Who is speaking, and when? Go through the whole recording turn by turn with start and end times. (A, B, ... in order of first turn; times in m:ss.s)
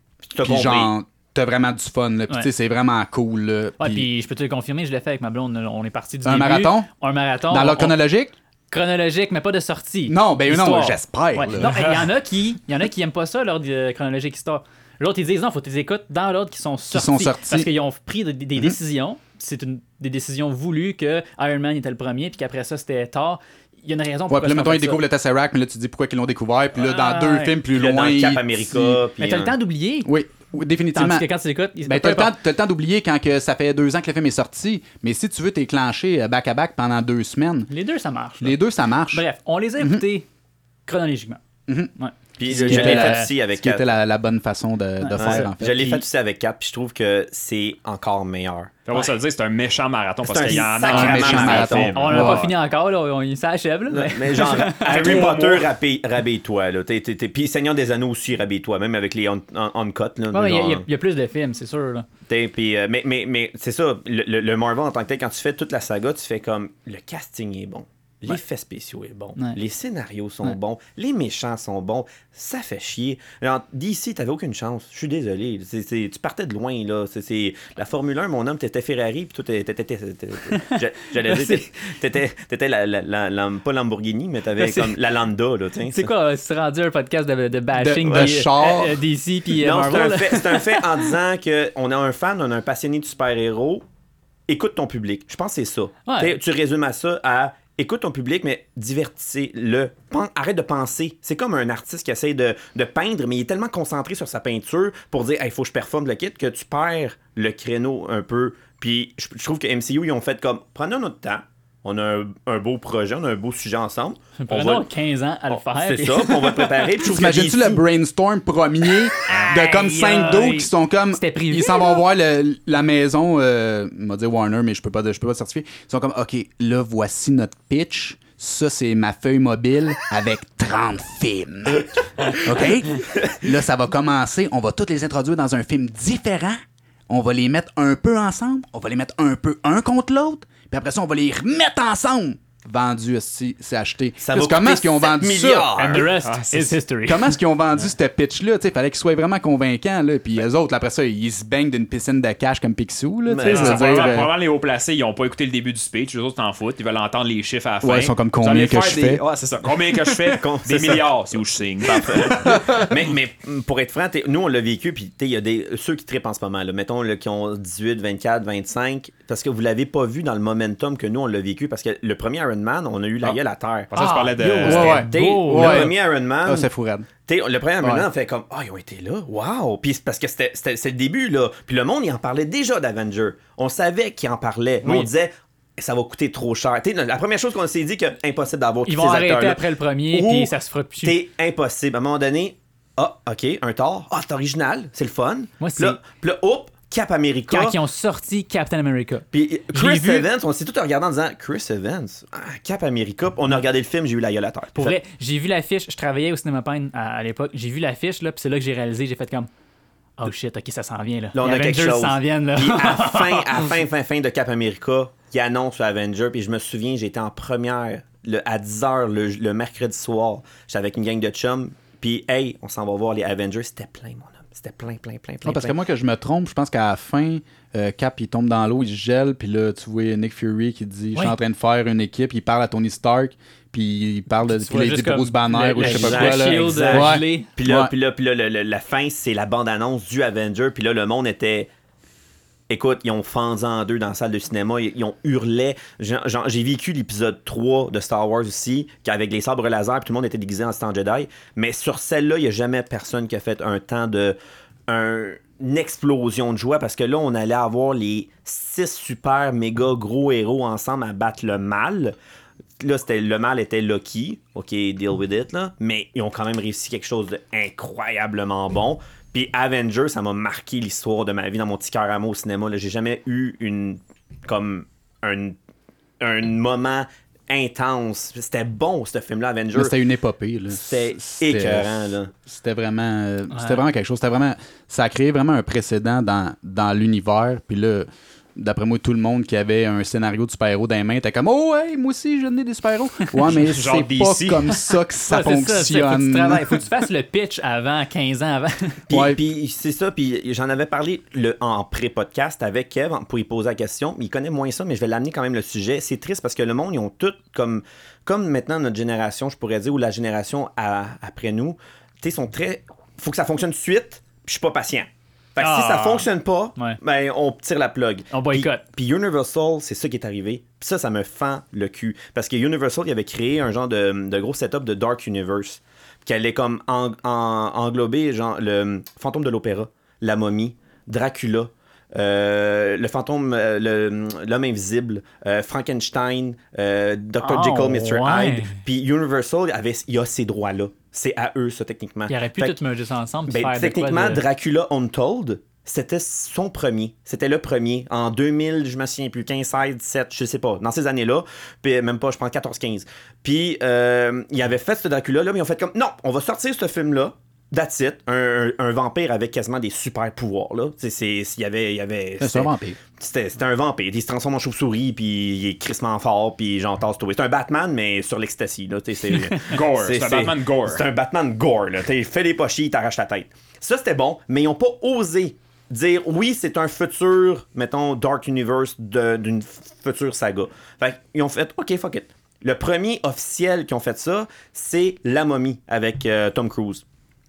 0:00.3-0:00.9 A
0:00.4-0:04.1 B
0:03.8-0:08.0 C
0:06.2-0:06.9 B
0:07.5-0:08.3 B
0:08.7-0:25.0 C
0:10.1-0:11.8 B
0:11.6-0:12.0 D
0:16.9-0:17.7 B
0:24.3-0:29.0 B
0:26.8-0:27.6 C
0:27.7-0:29.5 A
0:29.2-0:30.1 C
0:30.0-0:31.3 B
0:30.9-0:32.3 C
0:31.9-0:37.7 B
0:37.7-0:38.6 C
0:38.4-0:39.2 B
0:39.1-0:40.3 C
0:40.9-0:41.4 C
0:42.0-0:43.3 C
0:42.4-0:43.9 A
0:42.5-0:46.0 B
0:45.0-0:45.5 C
0:45.2-0:48.7 A
0:48.8-0:52.5 D
0:50.2-0:52.1 A
0:50.8-0:52.4 B
0:52.0-0:55.7 C
0:53.9-1:00.8 A
0:54.9-0:55.3 B
1:00.3-1:02.1 C
1:02.3-1:26.1 A
1:21.2-1:21.6 C
1:24.6-1:25.0 C
1:25.9-1:31.0 C
1:27.7-1:29.0 B
1:28.1-1:28.4 A
1:29.6-1:33.8 A
1:34.5-1:54.9 A
1:36.1-1:36.4 C
1:54.4-1:56.9 C
1:55.5-1:57.8 A
1:57.0-2:25.7 B
1:59.3-2:02.0 C
2:24.2-2:26.1 A
2:25.8-2:27.4 C
2:25.9-2:26.8 D
2:27.1-2:34.3 B
2:33.3-2:34.2 A
2:33.4-2:42.5 D
2:37.8-2:39.2 B
2:40.3-2:41.1 A
2:41.8-2:53.9 A
2:42.4-2:42.9 B
2:53.9-2:55.0 D
2:54.0-2:55.9 C
2:54.6-2:57.1 B
2:55.1-2:56.7 A
2:57.3-3:17.8 A
2:57.8-2:58.1 B
3:08.9-3:11.2 C
3:15.6-3:16.0 C
3:17.5-3:20.3 C
3:19.3-3:25.0 A
3:24.8-3:29.5 C
3:30.2-3:33.7 C
3:31.3-3:45.7 A
3:45.4-3:57.9 B
3:54.5-3:57.5 C
3:55.8-4:01.7 A
4:02.7-4:14.4 A
4:14.9-4:22.2 A
4:22.8-4:35.6 A
4:36.2-4:39.9 A
4:39.7-4:56.8 B
4:40.7-4:42.3 A
4:43.5-4:43.8 C
4:53.5-4:54.9 D
4:55.3-4:59.1 C
4:59.1-5:42.8 A
4:59.1-4:59.4 B
5:15.6-5:17.0 C
5:18.3-5:18.8 C
5:37.4-5:38.7 C
5:42.3-5:44.4 C
5:43.5-6:27.0 A
6:02.4-6:03.0 B
6:09.6-6:11.0 D